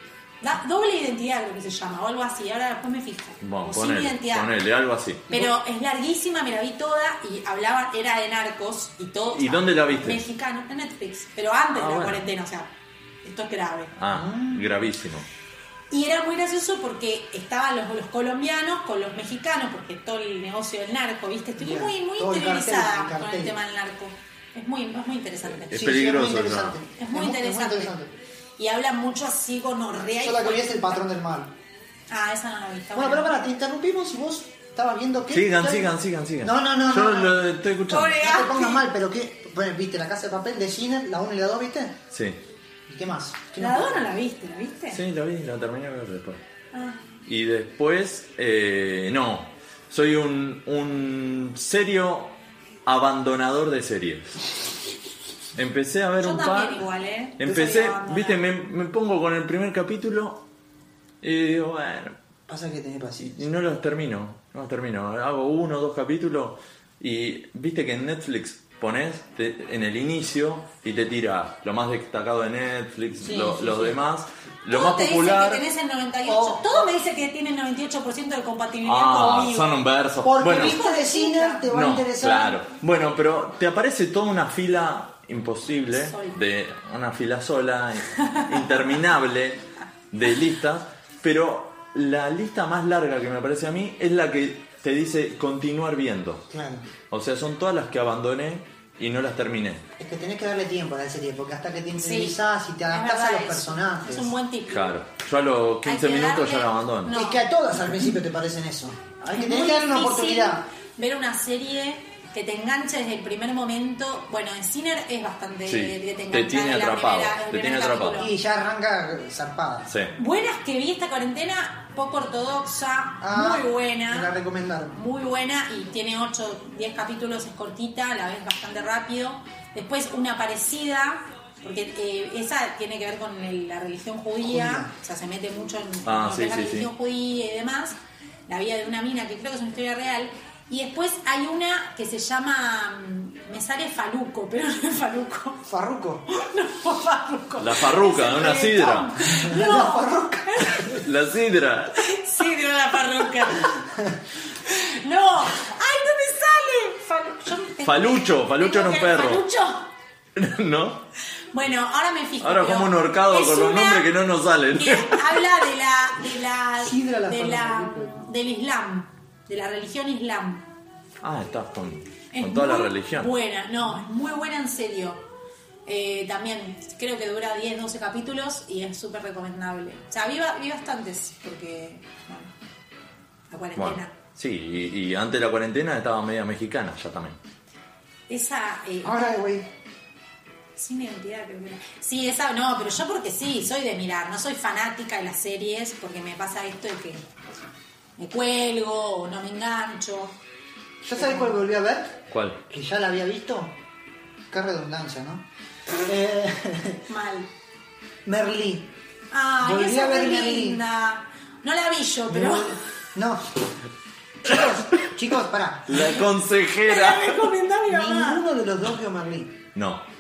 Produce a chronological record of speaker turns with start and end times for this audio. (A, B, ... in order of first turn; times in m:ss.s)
0:00.4-0:04.5 A
0:03.4-0:05.3 B
0:05.3-0:12.7 A
0:09.3-0:10.2 B
0:11.8-0:12.2 B
0:13.2-0:13.9 A
0:14.0-0:15.3 B
0:14.1-0:14.8 C
0:15.9-0:25.8 A
0:21.6-0:23.6 C
0:25.7-0:26.8 B
0:25.7-0:28.1 C
0:27.0-0:27.9 A
0:28.6-0:31.0 A
0:30.1-0:31.5 C
0:32.1-0:33.4 A
0:33.0-0:37.4 C
0:35.3-0:38.2 B
0:37.9-0:38.8 A
0:38.2-0:42.0 C
0:42.1-0:42.4 B
0:42.9-0:44.1 C
0:43.6-0:45.0 A
0:44.9-0:46.4 B
0:46.7-0:47.0 A
0:47.3-0:54.5 B
0:55.6-0:56.8 B
0:56.2-0:58.4 A
0:57.4-1:00.4 B
1:01.2-1:02.2 B
1:02.5-1:03.5 C
1:03.3-1:15.6 B
1:13.2-1:14.0 C
1:14.7-1:19.8 A
1:16.2-1:16.9 C
1:18.8-1:20.8 B
1:20.2-1:22.6 C
1:20.5-1:21.6 A
1:21.7-1:36.4 B
1:25.9-1:26.4 A
1:36.5-1:36.9 C
1:37.1-1:39.8 B
1:40.0-1:44.3 C
1:42.0-1:42.4 A
1:42.9-1:45.0 A
1:44.7-1:47.1 B
1:45.8-1:47.4 A
1:47.1-1:50.7 C
1:49.3-1:58.3 A
1:55.7-1:58.2 B
1:58.2-1:59.9 C
1:59.9-2:00.1 B
2:00.2-2:04.3 A
2:03.2-2:05.0 C
2:04.9-2:25.6 A
2:14.4-2:14.9 C
2:16.1-2:16.9 B
2:25.7-2:26.3 C
2:26.3-2:31.0 A
2:27.6-2:29.1 B
2:29.3-2:31.0 C
2:31.0-2:32.0 B
2:32.0-2:33.8 A
2:34.7-2:39.9 A
2:37.8-2:39.4 B
2:40.4-2:41.0 B
2:41.5-2:44.1 A
2:42.4-2:45.4 B
2:44.7-2:50.6 A
2:46.8-2:48.2 C
2:51.2-2:53.3 B
2:52.3-2:55.2 A
2:55.9-3:02.5 A
3:03.5-3:04.1 A
3:03.8-3:07.4 B
3:08.3-3:09.3 A
3:09.0-3:09.7 C
3:10.8-3:17.2 A
3:18.2-3:20.4 A
3:21.0-3:23.8 C
3:21.2-3:21.6 A
3:22.3-3:22.6 B
3:24.5-3:25.5 C
3:26.0-3:27.0 C
3:27.1-3:27.5 A
3:28.2-3:28.9 C
3:29.3-3:32.8 A
3:29.6-3:30.8 C
3:32.3-3:33.6 C
3:34.4-3:36.2 C
3:35.9-3:37.5 B
3:36.9-3:38.4 A
3:37.9-3:39.6 C
3:39.8-3:40.0 B